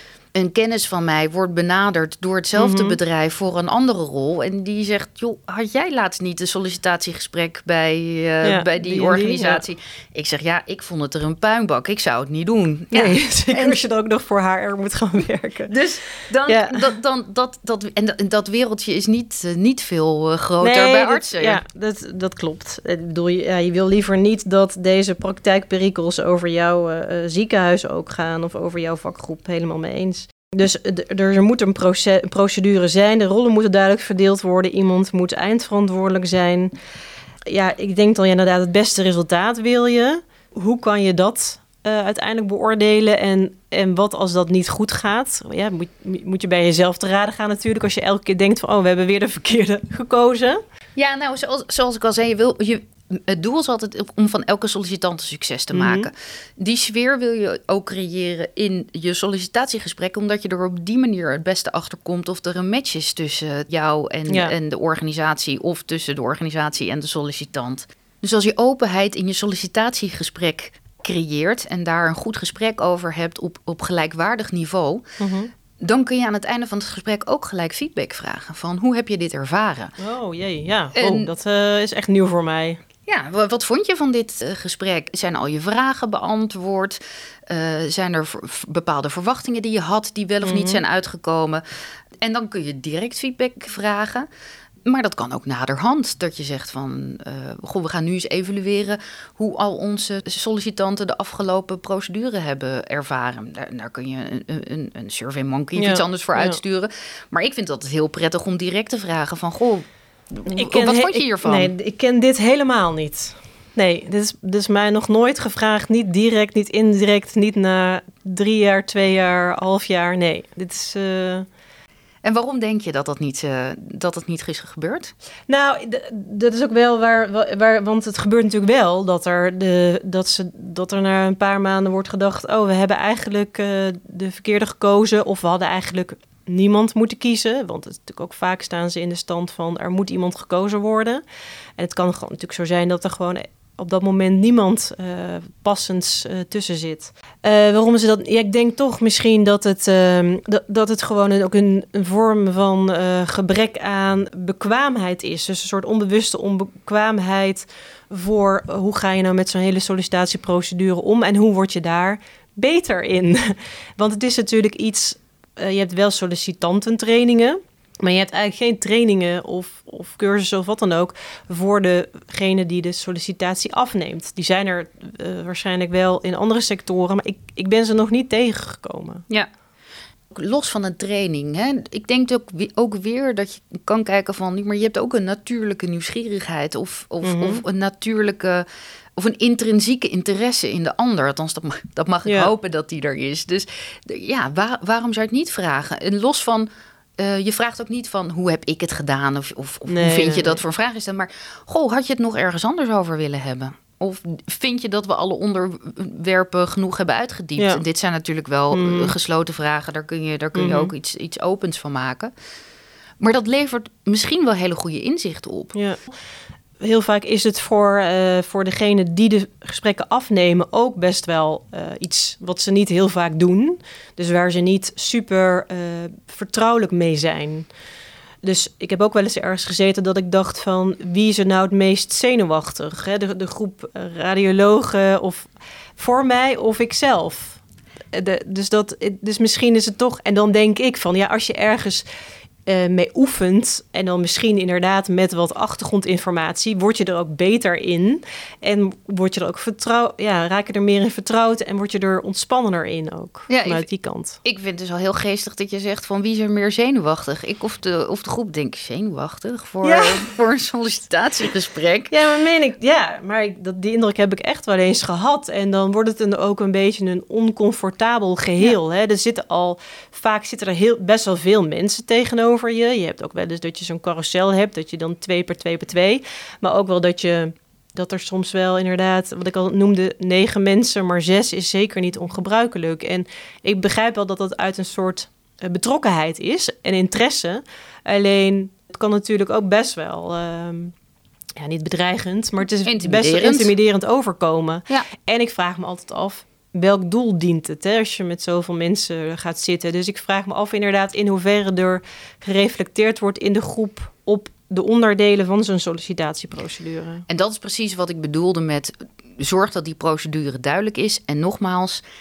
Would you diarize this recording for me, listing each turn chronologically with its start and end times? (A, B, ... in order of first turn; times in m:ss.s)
0:00.4-0:13.8 A
0:02.6-0:03.0 B
0:08.4-0:09.6 B
0:12.9-0:15.7 B
0:15.7-0:21.6 A
0:16.5-0:16.9 B
0:20.6-0:36.7 B
0:37.5-0:50.6 B
0:51.0-1:15.0 A
0:55.7-0:56.1 B
1:04.3-1:04.5 B
1:15.2-1:15.5 B
1:15.8-1:19.9 A
1:20.0-1:22.8 B
1:21.0-1:21.3 A
1:23.1-1:31.6 A
1:30.4-1:30.8 B
1:32.2-1:34.3 A
1:34.9-1:51.7 A
1:45.8-1:46.6 B
1:50.5-2:01.5 B
2:02.2-2:05.1 A
2:05.5-2:21.2 B
2:21.8-2:59.2 B
3:00.3-3:08.6 A
3:07.2-3:07.6 B
3:09.2-3:32.3 A
3:12.3-3:12.5 B
3:19.9-3:20.6 B
3:28.7-3:29.1 B
3:30.6-3:30.9 B
3:33.2-3:35.7 A
3:35.7-3:36.0 B
3:36.8-3:47.7 B
3:48.4-3:57.6 B
3:58.1-4:02.0 B
4:02.7-4:14.4 B
4:13.5-4:13.9 A
4:14.4-4:22.1 A
4:19.8-4:20.3 B
4:22.1-4:50.9 B
4:51.6-5:07.2 B
4:52.8-4:53.7 A
5:07.3-5:12.0 A